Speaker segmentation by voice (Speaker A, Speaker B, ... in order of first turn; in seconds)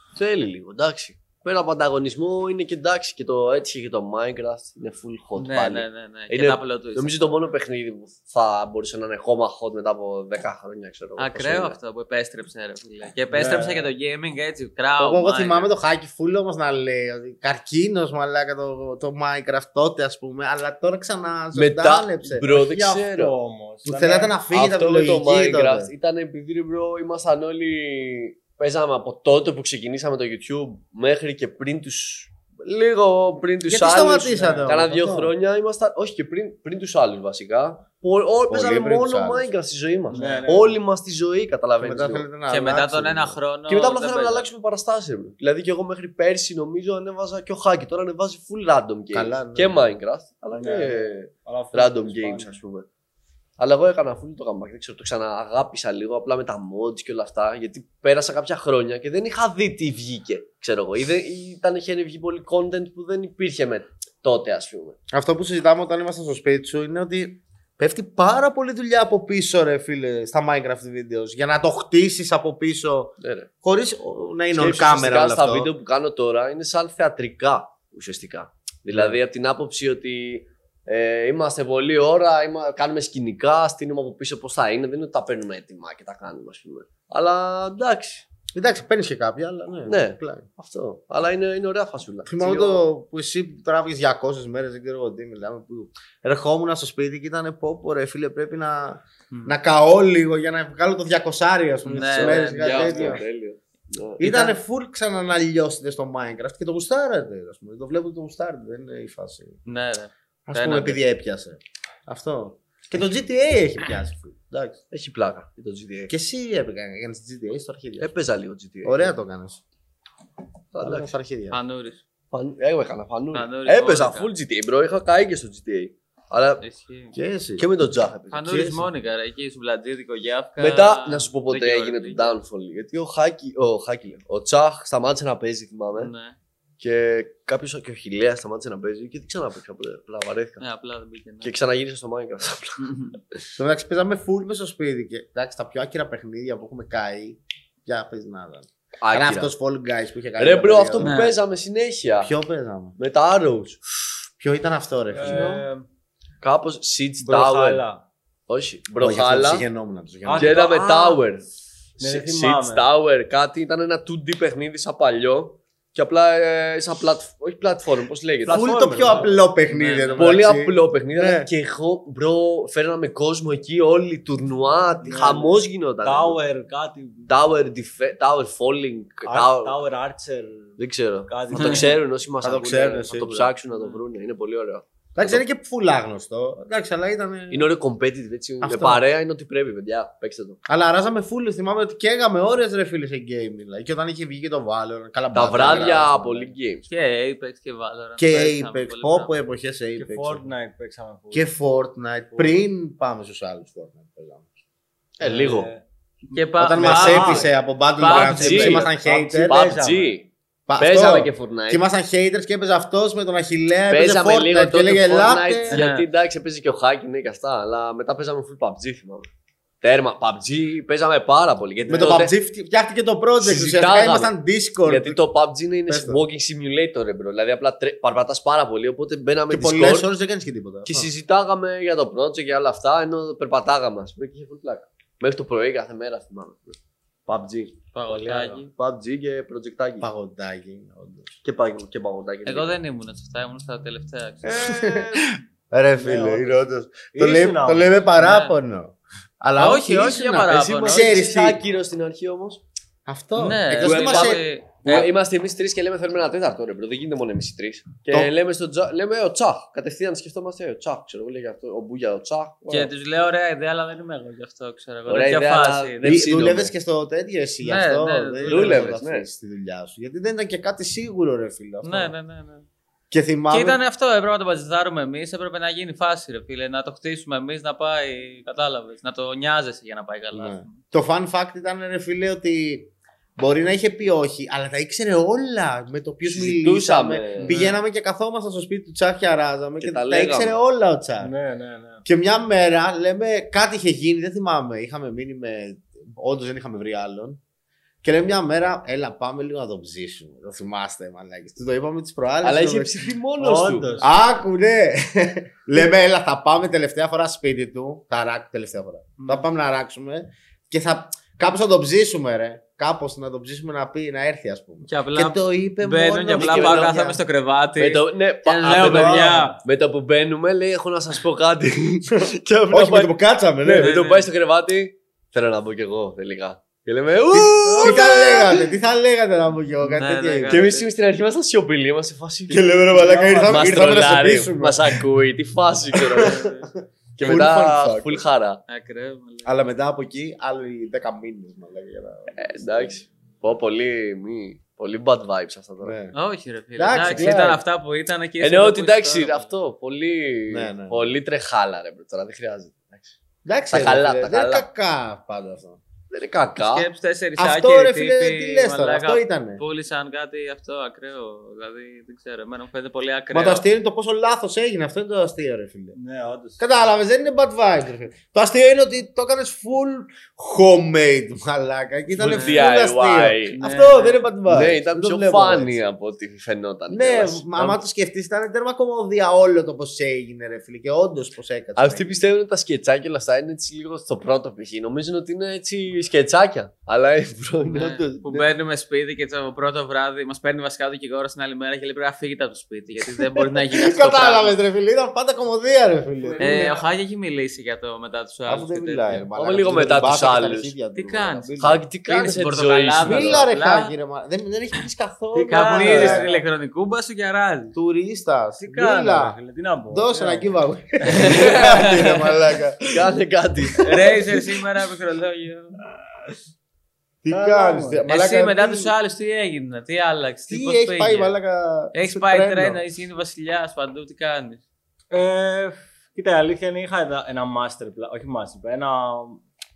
Speaker A: 0.1-11.8, 21.5-23.3, 24.5-42.3, 43.7-52.9, 53.6-65.0, 73.2-73.5, 74.5-88.3, 89.9-92.8, 101.9-104.3, 114.9-116.1, 118.0-119.2, 120.7-121.1, 122.3-126.6, 127.6-128.7, 130.6-136.1, 136.8-140.6, 141.4-142.8, 149.0-149.5, 150.4-152.3, 153.0-153.8, 155.2-155.7, 156.4-157.8, 158.5-159.7, 160.3-161.4, 162.0-169.2, 170.2-176.4, 177.3-179.8, 180.8-185.4, 187.5-190.6, 195.3-196.9, 205.2-205.7, 208.1-208.9, 209.5-211.8, 213.9-219.3, 219.8-222.3, 223.4-224.3, 224.8-230.1, 230.9-240.1, 241.4-242.8, 244.5-245.2, 250.5-252.6, 253.8-262.9, 265.1-266.7, 268.5-269.3, 286.3-287.6, 289.8-290.6, 302.4-304.1, 316.4-317.0, 317.8-328.6, 330.5-332.7, 333.4-336.4, 337.2-338.6, 342.4-345.9, 348.4-353.2, 353.7-354.7, 356.1-356.9, 372.2-373.6, 374.5-377.8, 381.8-388.5, 399.4-400.8, 401.6-403.4, 412.9-414.1
Speaker B: 5.4-7.4, 11.2-15.7, 42.5-44.5, 101.8-103.2, 104.2-104.6, 109.7-111.0, 121.5-122.0, 123.3-124.3, 126.6-127.1, 128.3-132.3, 136.0-136.4, 140.6-141.5, 142.8-143.2, 151.0-151.4, 169.7-170.4, 181.5-181.9, 196.9-199.3, 206.3-208.8, 215.7-216.1, 237.9-238.7, 242.5-244.7, 248.2-248.5, 249.6-251.2, 253.4-255.1, 262.7-266.2, 267.6-268.9, 271.8-272.7, 273.5-280.8, 287.4-287.8, 309.2-309.4, 314.9-319.6, 323.8-324.3, 327.6-328.5, 329.8-330.9, 336.2-336.7, 337.2-337.5, 338.7-339.5, 346.1-349.5, 356.6-363.6, 372.2-372.6, 373.5-374.3, 387.6-394.6, 396.4-399.2, 400.9-403.9, 405.5-407.8, 411.1-412.4, 413.8-415.8, 418.1-421.3, 421.9-424.6
Speaker C: 13.3-13.9, 22.7-24.4, 34.3-34.8, 40.1-40.8, 50.5-52.6, 155.1-155.9, 157.2-158.0, 160.2-161.2, 162.0-162.8, 168.4-169.4, 175.0-177.3, 179.3-181.9, 200.0-201.5, 205.2-205.8, 206.4-207.5, 208.1-210.2, 246.0-246.6, 247.1-248.0, 291.2-292.0, 303.4-304.1, 332.9-333.9, 365.9-366.6, 405.4-406.4, 408.6-410.5, 417.3-418.0, 425.1-429.4
Speaker D: 15.0-22.8, 23.9-25.9, 33.7-35.3, 38.5-39.5, 41.8-43.4, 49.1-49.9, 65.1-75.7, 88.5-90.5, 92.3-103.2, 104.2-109.6, 110.5-114.8, 116.1-118.1, 118.8-119.6, 120.8-121.6, 127.1-127.7, 128.5-128.8, 143.6-151.2, 152.2-153.0, 154.4-155.6, 159.0-160.6, 168.5-171.5, 182.4-183.5, 185.2-187.7, 188.6-189.0, 190.7-196.5, 198.2-200.4, 201.3-204.4, 206.6-209.7, 210.7-215.8, 221.9-225.2, 225.9-226.2, 229.5-231.1, 240.0-241.3, 244.5-251.6, 253.1-255.0, 266.0-272.1, 273.1-273.8, 280.3-291.3, 292.1-297.4, 298.0-303.0, 304.0-317.2, 318.6-319.5, 322.2-324.0, 327.8-330.7, 332.5-335.1, 336.0-338.2, 339.4-343.1, 345.8-346.1, 346.8-347.6, 350.5-351.2, 353.4-355.8, 357.4-359.6, 363.3-366.0, 366.6-375.8, 376.9-382.2, 393.1-396.8, 398.5-401.8, 403.0-406.3, 407.7-409.4, 409.9-413.1, 413.8-414.4, 417.2-418.9, 420.5-422.8